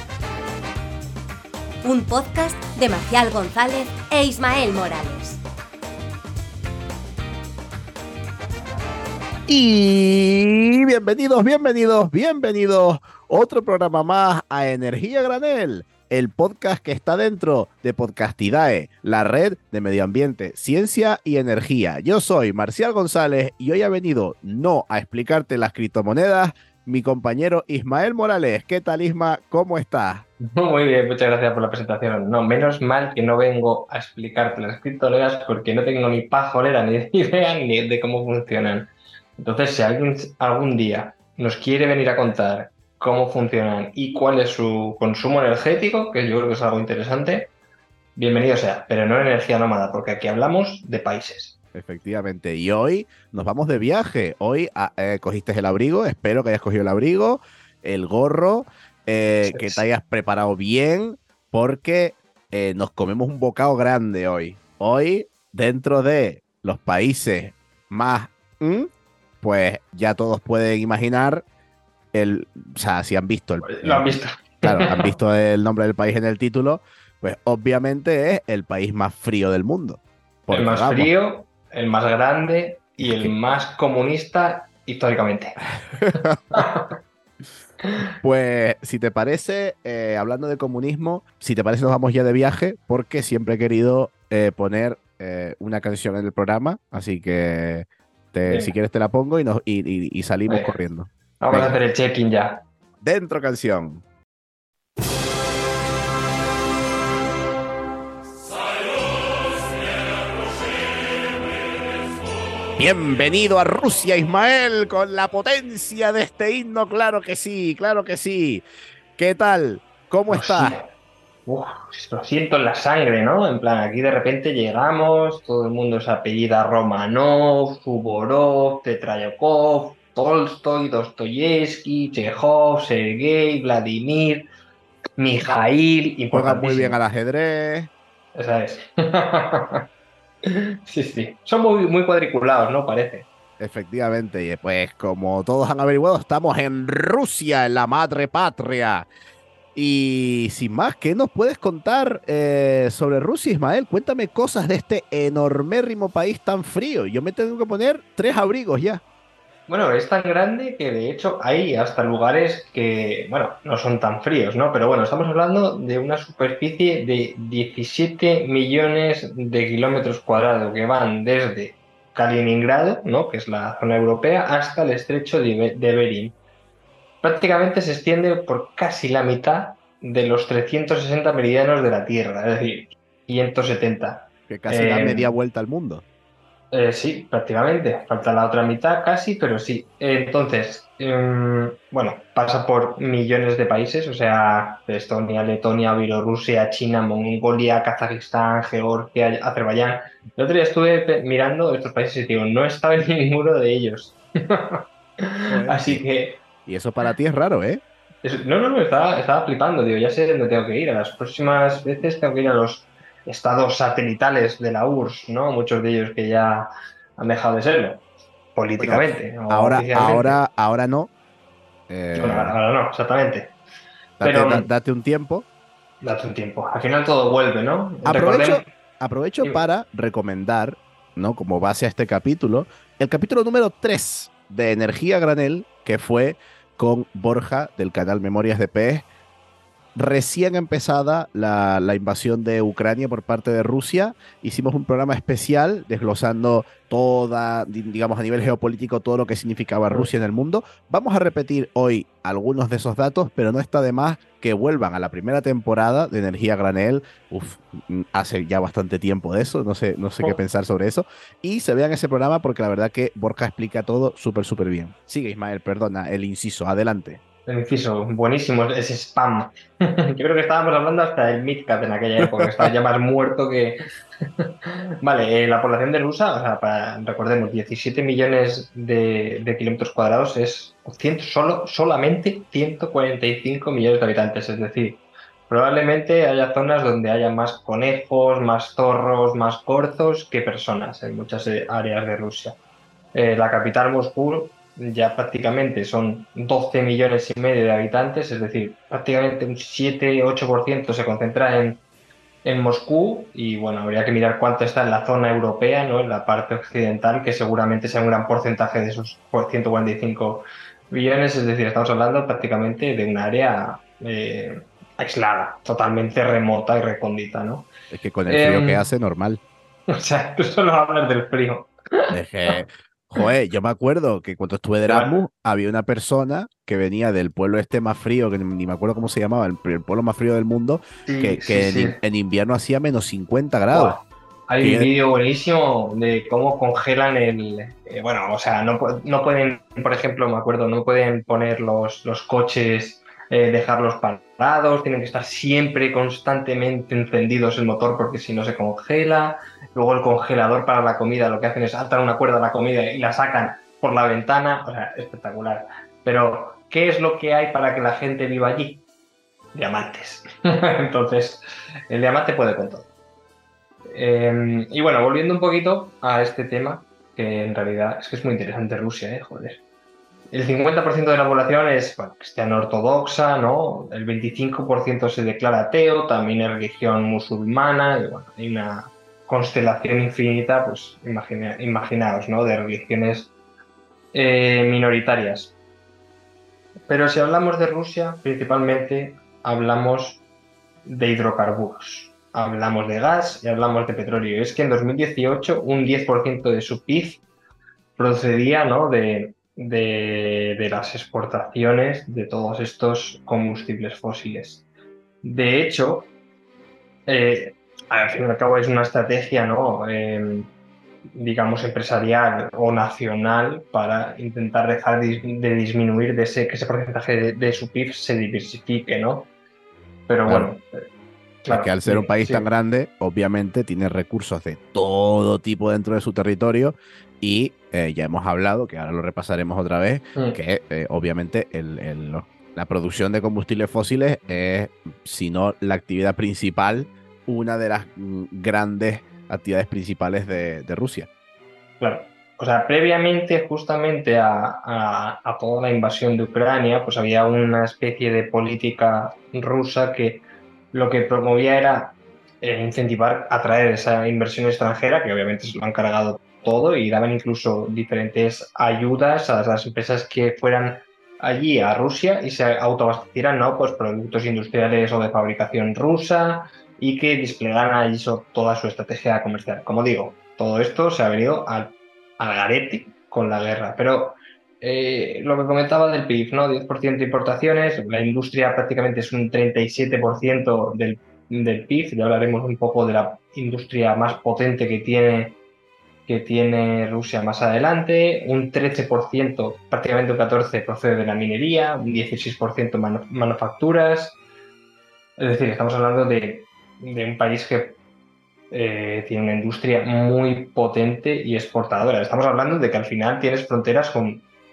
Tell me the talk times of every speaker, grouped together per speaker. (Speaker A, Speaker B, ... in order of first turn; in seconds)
Speaker A: 1.8-5.4
Speaker B: 9.5-30.2, 51.7-68.9, 69.4-71.4, 72.1-81.1, 83.0-83.3, 85.9-86.6, 88.2-101.8, 103.0-104.0, 112.8-118.6, 119.2-120.8, 136.3-137.9, 143.6-149.1, 149.8-159.0, 184.5-186.0, 205.5-206.1, 206.7-207.8, 218.8-221.1, 221.9-222.6, 224.2-225.5, 228.1-239.1, 239.9-267.2, 272.2-272.7, 317.9-319.4, 322.1-334.0, 334.6-334.9, 421.5-441.1
Speaker C: 30.4-47.5, 48.2-51.5, 59.4-59.8, 73.6-75.1, 80.5-85.6, 86.5-86.9, 87.8-88.1, 98.5-98.7, 100.5-100.7, 101.4-102.6, 120.3-120.9, 121.5-134.5, 135.2-137.0, 138.4-139.8, 140.4-143.3, 159.7-176.3, 177.2-185.3, 186.7-206.4, 208.2-218.0, 218.6-220.4, 222.2-223.6, 224.2-224.7, 226.0-228.7, 267.5-273.8, 274.4-292.6, 293.1-301.8, 302.4-317.7, 318.3-318.9, 319.9-322.6, 324.9-325.2, 331.1-332.0, 333.7-358.8, 359.5-362.9, 363.9-369.6, 370.3-383.3, 384.1-385.6, 386.9-390.2, 390.9-397.2, 397.9-404.6, 405.2-406.1, 407.1-410.5, 411.1-419.3, 420.1-420.8, 421.4-422.5, 441.8-485.4, 486.1-494.2, 495.2-497.8, 498.5-504.3